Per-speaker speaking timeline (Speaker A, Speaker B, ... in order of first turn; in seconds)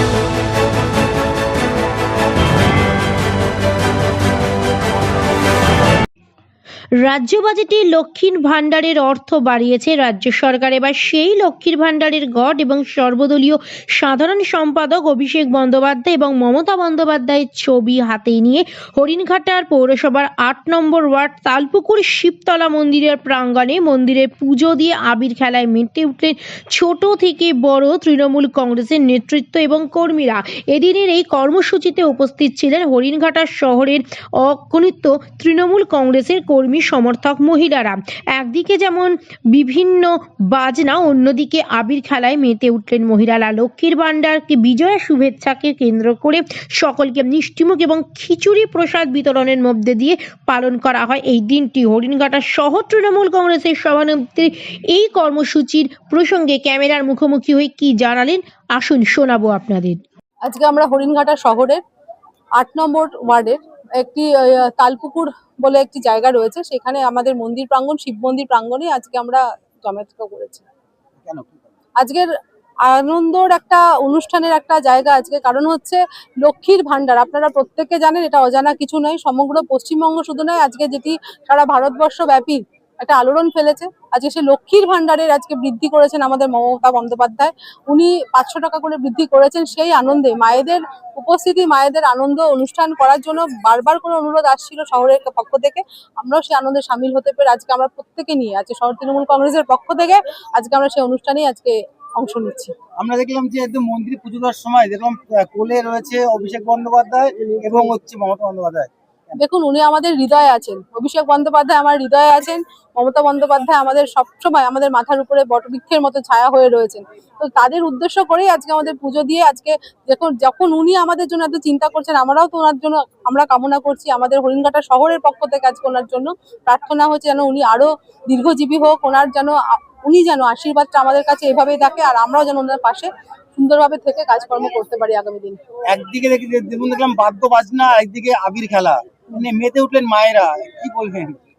Speaker A: 7.0-60.0
Speaker B: 60.5-61.8, 62.6-70.6, 72.0-72.3, 72.9-102.7, 109.3-135.6
Speaker C: 71.2-71.6, 103.0-108.9, 135.9-141.4